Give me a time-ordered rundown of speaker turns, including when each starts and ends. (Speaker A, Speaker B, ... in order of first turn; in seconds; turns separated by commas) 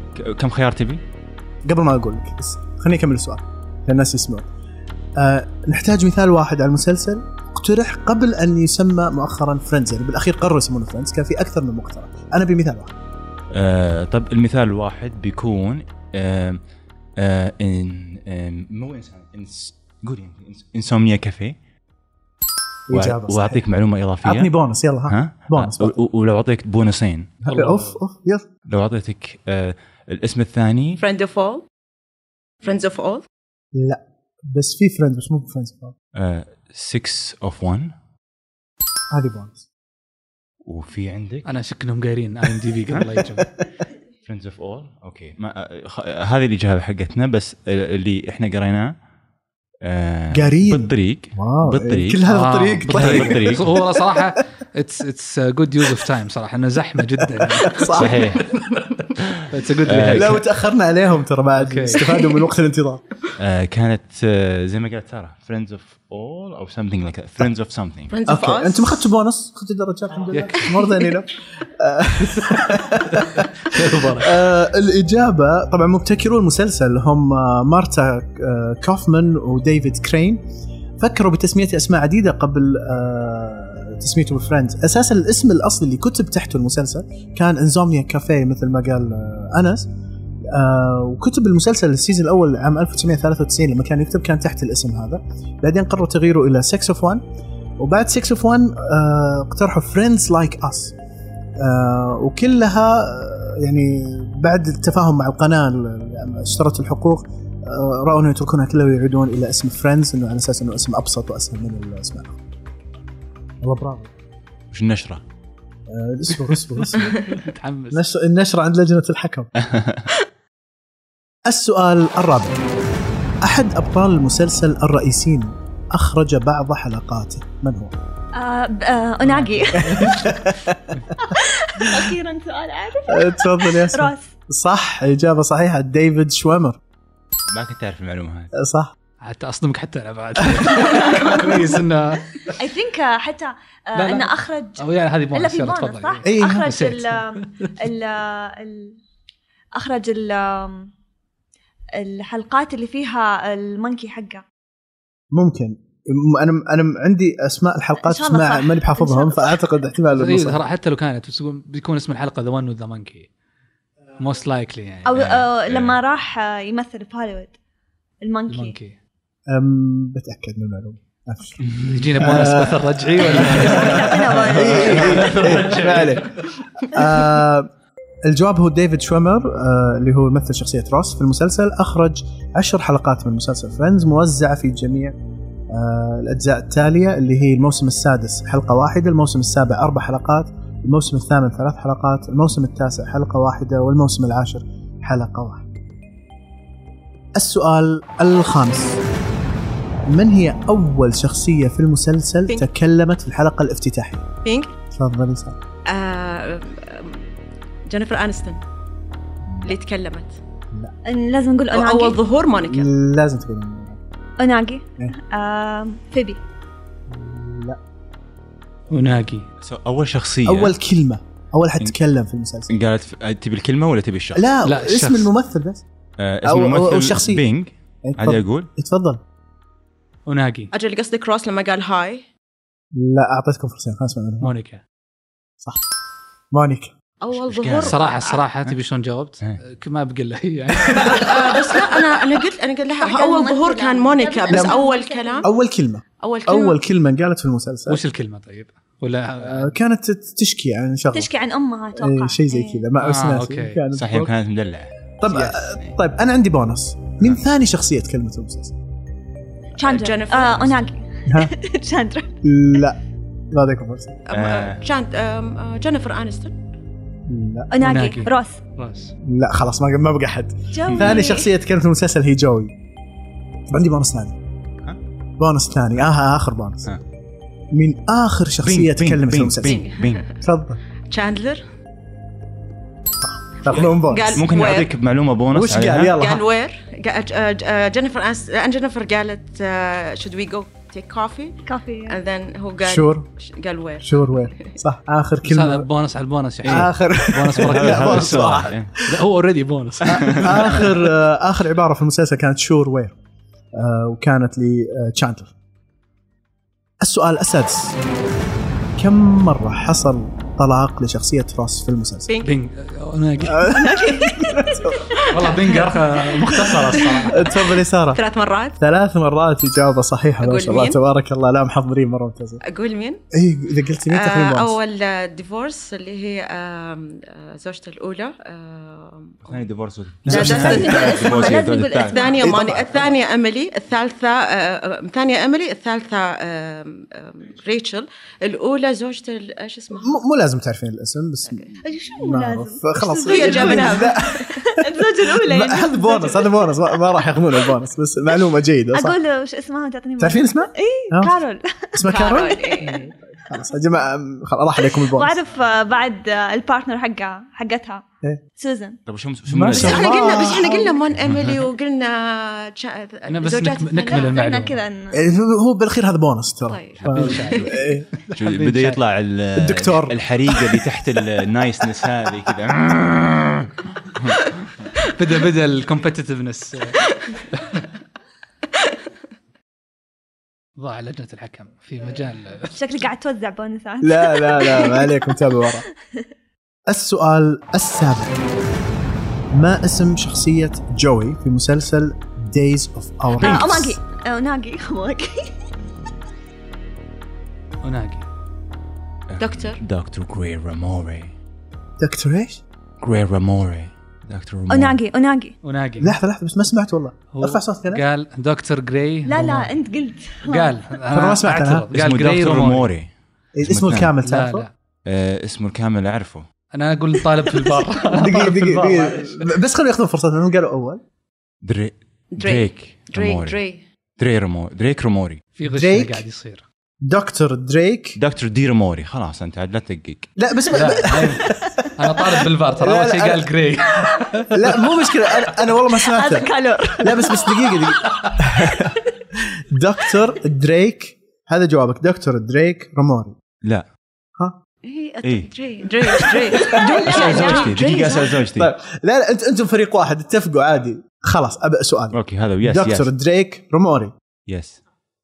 Speaker A: 0.1-1.0, Speaker B: 1.6-4.5, Speaker B: 5.2-12.9, Speaker A: 13.5-16.6, Speaker A: 17.2-21.6, Speaker B: 22.9-23.6, Speaker A: 22.9-24.5, Speaker B: 24.2-26.0, Speaker A: 25.1-27.3, Speaker B: 27.4-28.5, Speaker C: 27.5-28.0, Speaker A: 28.7-31.0, Speaker D: 31.0-31.6, Speaker D: 32.6-33.2, Speaker B: 33.7-35.9, Speaker A: 36.1-37.9, Speaker B: 39.1-39.6, Speaker A: 40.6-41.5, Speaker C: 41.4-43.5, Speaker B: 42.9-43.6, Speaker A: 44.2-48.9, Speaker A: 49.8-52.2, Speaker B: 50.3-54.3, Speaker C: 52.2-58.4, Speaker A: 52.9-53.7, Speaker B: 57.3-58.4, Speaker A: 58.0-58.5, Speaker A: 59.1-60.4, Speaker C: 59.5-60.4, Speaker B: 60.0-63.0, Speaker C: 61.6-62.0, Speaker A: 63.4-68.1, Speaker D: 68.1-69.0, Speaker B: 68.3-80.4, Speaker C: 70.3-70.7, Speaker C: 72.3-74.4, Speaker B: 81.0-89.9, Speaker B: 90.5-97.2, Speaker B: 97.8-101.0, Speaker B: 101.6-112.4, Speaker B: 113.6-114.1, Speaker A: 114.7-115.2, Speaker B: 115.9-117.2, Speaker C: 116.8-118.0, Speaker B: 117.9-119.5, Speaker A: 119.6-120.1, Speaker B: 121.5-122.6, Speaker B: 123.4-127.9, Speaker E: 128.3-130.3, Speaker C: 129.2-130.2, Speaker B: 129.8-131.0, Speaker E: 131.2-134.3, Speaker B: 131.8-132.1, Speaker B: 133.1-136.8, Speaker A: 137.5-138.5, Speaker B: 138.5-138.9, Speaker C: 139.2-142.5, Speaker E: 142.5-149.0, Speaker C: 143.9-147.7, Speaker B: 146.2-146.7, Speaker E: 149.8-150.9, Speaker E: 152.0-154.4, Speaker B: 155.3-160.6, Speaker E: 158.0-159.7, Speaker C: 160.1-163.3, Speaker C: 164.2-165.2, Speaker E: 165.0-167.5, Speaker A: 165.2-166.0, Speaker E: 168.2-168.8, Speaker C: 168.5-169.0, Speaker B: 169.5-171.7, Speaker A: 171.6-172.1, Speaker C: 171.8-174.1, Speaker B: 172.2-177.7, Speaker E: 173.4-175.2, Speaker A: 174.5-176.2, Speaker C: 174.9-176.2, Speaker B: 178.3-185.2, Speaker B: 185.7-195.7, Speaker B: 197.3-199.0, Speaker B: 200.1-204.2, Speaker D: 204.4-204.7, Speaker B: 204.9-205.6, Speaker D: 205.9-207.3, Speaker D: 207.9-208.6, Speaker B: 209.4-209.7, Speaker D: 209.6-210.4, Speaker E: 211.1-212.2, Speaker D: 211.7-212.9, Speaker B: 212.6-214.0, Speaker E: 214.4-216.4, Speaker B: 217.1-217.8, Speaker C: 218.9-219.5, Speaker A: 219.6-220.7, Speaker B: 220.4-222.7, Speaker A: 222.7-224.4, Speaker B: 224.3-225.8, Speaker C: 224.6-225.3, Speaker A: 226.2-228.7, Speaker B: 226.4-227.4, Speaker B: 228.0-229.2, Speaker C: 230.2-230.7, Speaker D: 230.7-232.3, Speaker B: 232.9-234.5, Speaker C: 234.4-234.8, Speaker B: 236.5-236.9, Speaker D: 237.2-238.4, Speaker A: 237.3-238.0, Speaker C: 237.8-242.0, Speaker D: 241.0-245.4, Speaker E: 243.0-245.5, Speaker B: 244.5-244.8, Speaker B: 245.4-248.0, Speaker D: 246.2-246.8, Speaker C: 247.9-249.7, Speaker B: 249.4-251.3, Speaker E: 251.1-252.9, Speaker B: 251.9-254.3, Speaker C: 253.0-253.8, Speaker A: 253.9-255.9, Speaker B: 255.2-258.8, Speaker E: 259.8-262.8, Speaker D: 259.8-260.9, Speaker B: 261.3-261.5, Speaker B: 262.4-263.0, Speaker B: 263.5-264.2, Speaker D: 264.3-266.5, Speaker A: 264.3-264.8, Speaker B: 267.2-267.7, Speaker E: 267.7-268.6, Speaker C: 267.8-269.1, Speaker B: 269.2-272.7, Speaker E: 270.7-271.5, Speaker B: 273.7-274.4, Speaker B: 275.4-276.9, Speaker B: 277.7-279.8, Speaker A: 278.6-280.2, Speaker D: 279.6-280.2, Speaker B: 280.4-280.8, Speaker D: 281.1-281.6, Speaker B: 283.2-284.4, Speaker A: 283.7-286.1, Speaker D: 283.7-284.9, Speaker B: 285.5-286.4, Speaker D: 286.1-294.7, Speaker E: 291.6-292.2, Speaker B: 292.8-293.2, Speaker B: 294.0-295.9, Speaker C: 295.4-300.9, Speaker B: 296.6-299.1, Speaker A: 297.6-298.9, Speaker B: 300.1-303.1, Speaker A: 300.1-300.5, Speaker B: 303.7-305.5, Speaker B: 307.0-308.0, Speaker B: 309.0-312.3, Speaker D: 312.3-312.5, Speaker C: 312.4-313.8, Speaker B: 313.5-315.2, Speaker E: 313.7-314.8, Speaker D: 315.2-315.9, Speaker C: 315.3-317.5, Speaker B: 316.6-318.2, Speaker D: 317.1-317.6, Speaker D: 318.1-318.8, Speaker B: 318.8-322.6, Speaker D: 320.4-321.0, Speaker D: 322.6-323.2, Speaker B: 323.3-324.8, Speaker D: 324.1-329.6, Speaker A: 329.4-332.2, Speaker B: 330.2-331.1, Speaker D: 330.2-340.1, Speaker E: 330.5-332.4, Speaker B: 332.3-333.1, Speaker B: 340.0-344.5, Speaker D: 341.5-341.7, Speaker E: 341.8-346.9, Speaker D: 343.2-344.5, Speaker B: 345.2-349.1, Speaker E: 348.9-353.1, Speaker B: 350.2-351.4, Speaker B: 351.9-355.4, Speaker D: 352.1-353.0, Speaker E: 354.9-358.1, Speaker E: 358.6-359.0, Speaker A: 359.1-360.3, Speaker B: 359.5-360.9, Speaker D: 359.7-364.3, Speaker E: 360.4-360.9, Speaker A: 361.2-361.6, Speaker C: 363.3-364.8, Speaker E: 364.1-365.2, Speaker B: 365.1-368.1, Speaker D: 366.6-367.7, Speaker A: 367.0-367.7, Speaker C: 367.1-369.0, Speaker A: 368.3-374.4, Speaker B: 369.5-370.2, Speaker C: 375.1-377.0, Speaker C: 377.5-377.8, Speaker C: 380.8-382.8, Speaker E: 382.6-386.2, Speaker B: 384.0-385.8, Speaker B: 386.9-388.4, Speaker B: 389.5-393.9, Speaker E: 393.3-395.5, Speaker A: 393.4-393.8, Speaker C: 397.8-398.3, Speaker A: 399.3-401.3, Speaker D: 399.4-399.8, Speaker B: 402.0-402.6, Speaker A: 403.0-405.0, Speaker E: 404.7-405.6, Speaker C: 405.6-406.2, Speaker B: 406.0-408.0, Speaker C: 407.3-409.7, Speaker E: 409.2-410.8, Speaker C: 410.4-412.9, Speaker B: 411.1-411.9, Speaker A: 411.9-413.1, Speaker B: 413.5-414.7, Speaker A: 413.6-414.1, Speaker C: 414.2-414.7, Speaker A: 415.1-416.5, Speaker C: 416.7-419.5, Speaker B: 418.1-421.0, Speaker A: 421.6-423.6, Speaker D: 422.3-423.8, Speaker A: 424.2-425.4, Speaker C: 425.6-426.6, Speaker B: 425.7-426.2, Speaker B: 427.0-428.2, Speaker A: 428.2-430.3, Speaker B: 430.4-431.9, Speaker C: 430.7-434.8, Speaker B: 432.8-433.5, Speaker B: 434.5-439.0, Speaker E: 436.0-438.2, Speaker B: 439.7-443.4, Speaker D: 444.8-448.4, Speaker A: 445.2-445.5, Speaker B: 446.5-447.3, Speaker E: 446.6-447.8, Speaker A: 447.1-448.7, Speaker B: 448.5-454.1, Speaker A: 452.1-453.1, Speaker A: 454.5-454.8